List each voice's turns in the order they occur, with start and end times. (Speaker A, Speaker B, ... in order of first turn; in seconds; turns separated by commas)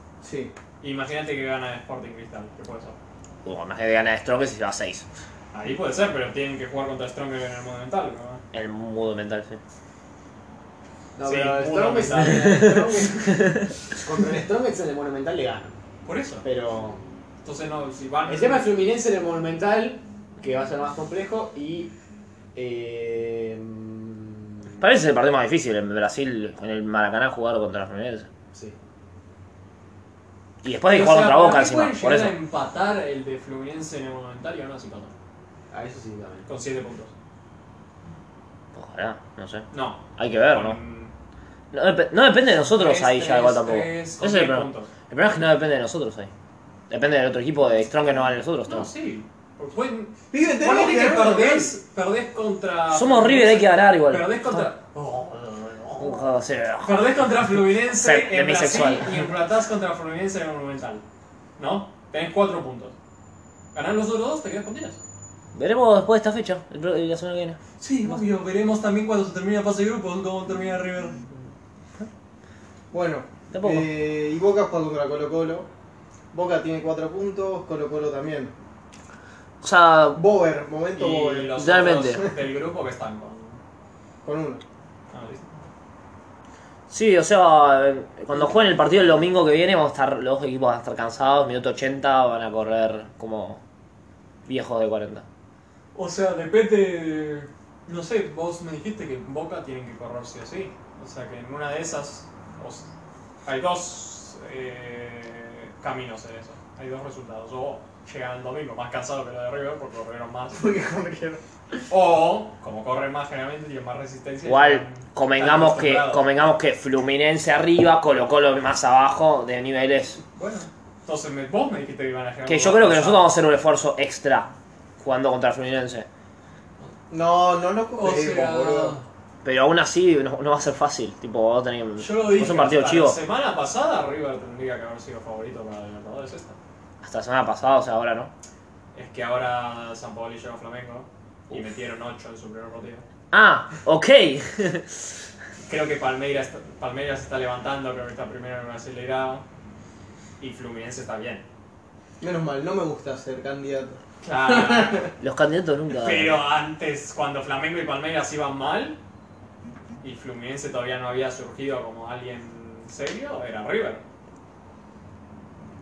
Speaker A: 0.2-0.5, Speaker B: 0.8-3.0, Speaker C: 3.4-5.1, Speaker B: 5.5-8.4, Speaker C: 8.5-9.6, Speaker D: 11.2-15.7, Speaker B: 11.2-12.8, Speaker C: 12.3-12.8, Speaker B: 16.0-16.4, Speaker D: 16.4-17.0, Speaker B: 17.4-18.7, Speaker D: 18.2-21.9, Speaker D: 22.5-24.7, Speaker C: 24.8-28.3, Speaker C: 30.6-32.4, Speaker B: 30.9-35.1, Speaker D: 35.7-36.5, Speaker B: 36.5-37.1, Speaker C: 38.7-40.8, Speaker B: 39.7-41.1, Speaker C: 41.7-46.3, Speaker B: 42.7-44.9, Speaker C: 46.9-48.9, Speaker B: 48.6-56.2, Speaker A: 50.3-51.7, Speaker C: 52.9-54.7, Speaker C: 56.0-57.2, Speaker B: 56.8-61.0, Speaker C: 57.9-59.3, Speaker B: 61.6-62.9, Speaker B: 63.7-65.0, Speaker C: 65.5-67.6, Speaker B: 67.8-71.3, Speaker A: 72.9-75.7, Speaker C: 73.5-73.9, Speaker A: 76.3-78.5, Speaker C: 79.6-80.2, Speaker A: 80.1-82.3, Speaker B: 80.9-83.6, Speaker C: 81.5-82.2, Speaker A: 84.2-84.6, Speaker B: 85.1-85.6, Speaker C: 86.9-93.6, Speaker C: 94.5-95.2, Speaker B: 95.9-102.9, Speaker B: 103.4-110.7, Speaker A: 110.5-111.4, Speaker B: 111.9-116.2, Speaker C: 114.4-120.2, Speaker B: 120.3-123.3, Speaker C: 122.5-126.1, Speaker A: 127.1-128.9, Speaker B: 128.0-129.1, Speaker C: 129.4-133.2, Speaker B: 132.0-136.6, Speaker C: 137.0-138.3, Speaker B: 138.9-143.0, Speaker C: 143.3-145.1, Speaker B: 145.7-149.4, Speaker B: 150.4-151.4, Speaker A: 152.2-155.1, Speaker B: 154.2-155.1, Speaker C: 155.2-156.4, Speaker B: 155.9-159.0, Speaker B: 160.0-164.0